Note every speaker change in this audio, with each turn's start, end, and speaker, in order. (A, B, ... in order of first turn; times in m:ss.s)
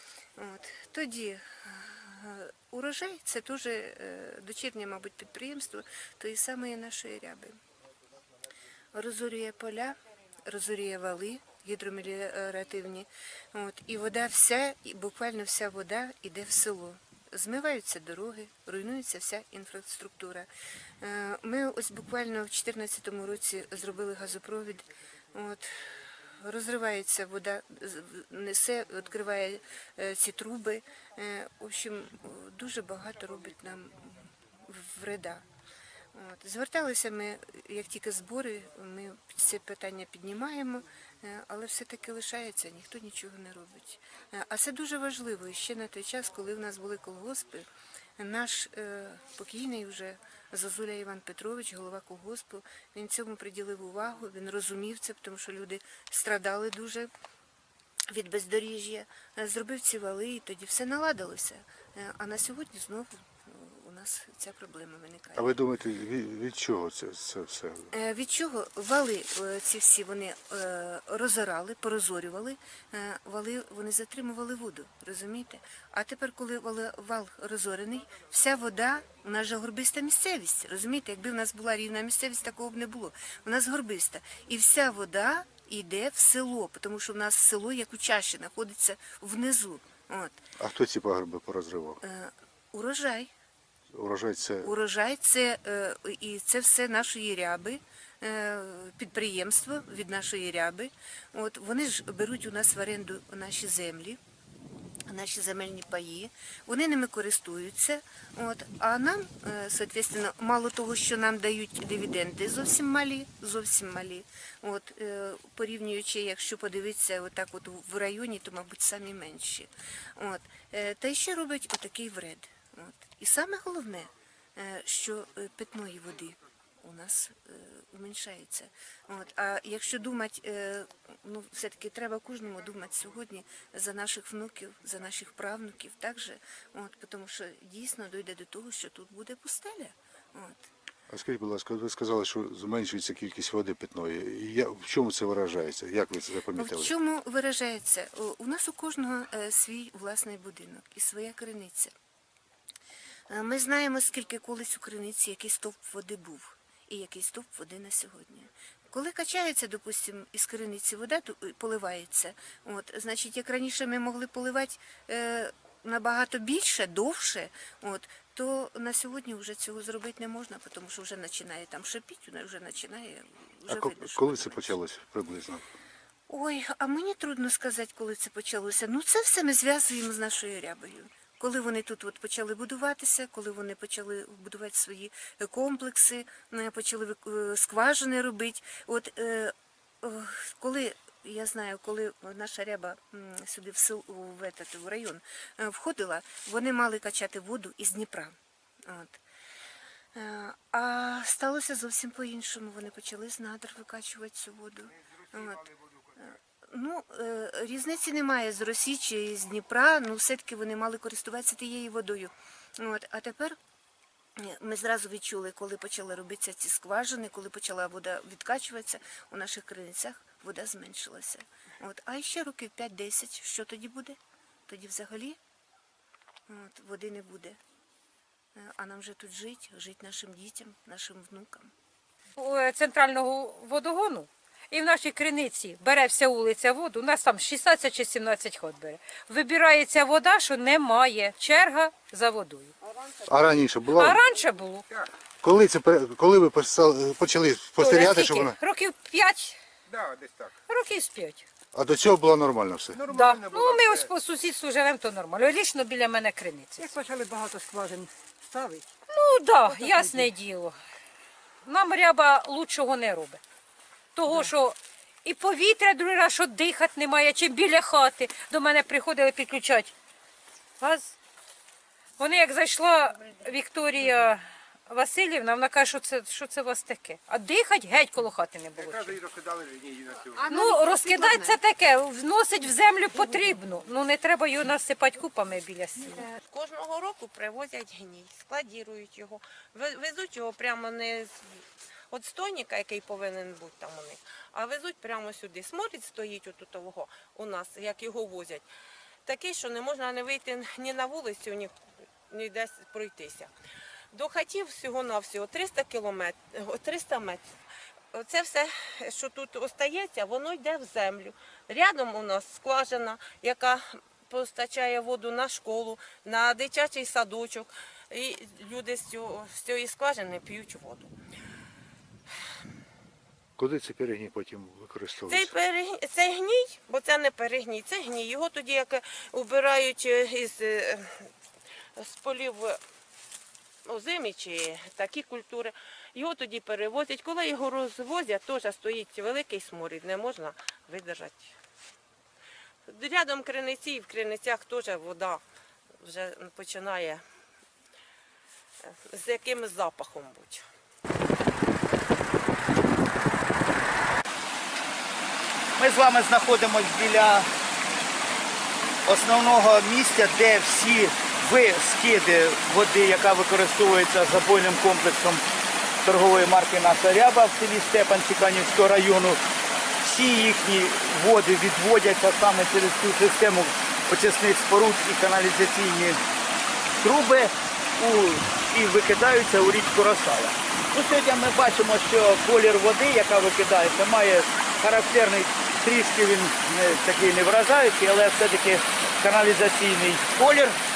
0:00.4-0:07.6 A
0:08.9-0:20.5 A
0:21.0-0:35.4 A
0:36.1-0:47.7 A
0:48.2-0:57.1 A
0:58.1-1:05.5 A
1:05.4-1:07.9 B
1:07.9-1:30.4 A
1:30.6-1:32.0 B
1:32.0-1:33.3 A
1:33.9-1:34.7 B
1:34.6-1:44.2 A
1:45.1-2:20.7 A
2:21.1-2:26.9 B
2:26.6-2:31.9 A
2:33.3-2:54.8 A
2:53.7-2:55.6 B
2:56.3-3:19.2 A
3:20.1-3:33.6 A
3:25.4-3:25.8 C
3:34.4-3:45.4 A
3:46.5-3:47.6 A
3:48.6-3:51.7 A
3:52.4-4:02.7 D
4:03.3-4:04.2 B
4:03.9-4:04.8 D
4:05.4-4:08.6 B
4:07.8-4:09.6 D
4:09.9-4:10.6 C
4:10.7-4:11.5 D
4:11.7-4:13.0 B
4:13.0-4:14.1 C
4:13.1-4:17.0 D
4:16.8-4:18.9 E
4:19.1-4:20.8 D
4:19.7-4:20.3 E
4:21.6-4:23.4 D
4:24.2-4:29.9 D
4:30.8-4:31.2 D
4:32.2-4:39.2 D
4:38.8-4:40.5 C
4:40.5-4:46.3 D
4:40.5-4:41.5 A
4:46.5-4:58.7 F
4:59.3-5:01.8 F
5:02.3-5:03.5 F
5:04.1-5:07.6 F
5:08.1-5:21.2 F
5:23.6-5:25.5 B
5:25.3-5:31.3 F
5:32.0-5:32.8 F
5:33.9-5:41.6 F
5:42.9-5:45.4 F
5:46.0-5:47.2 F
5:48.8-5:50.6 F
5:55.8-5:57.5 G
5:59.0-6:05.4 G
6:06.0-6:09.4 G
6:10.0-6:16.2 G
6:17.0-6:30.8 G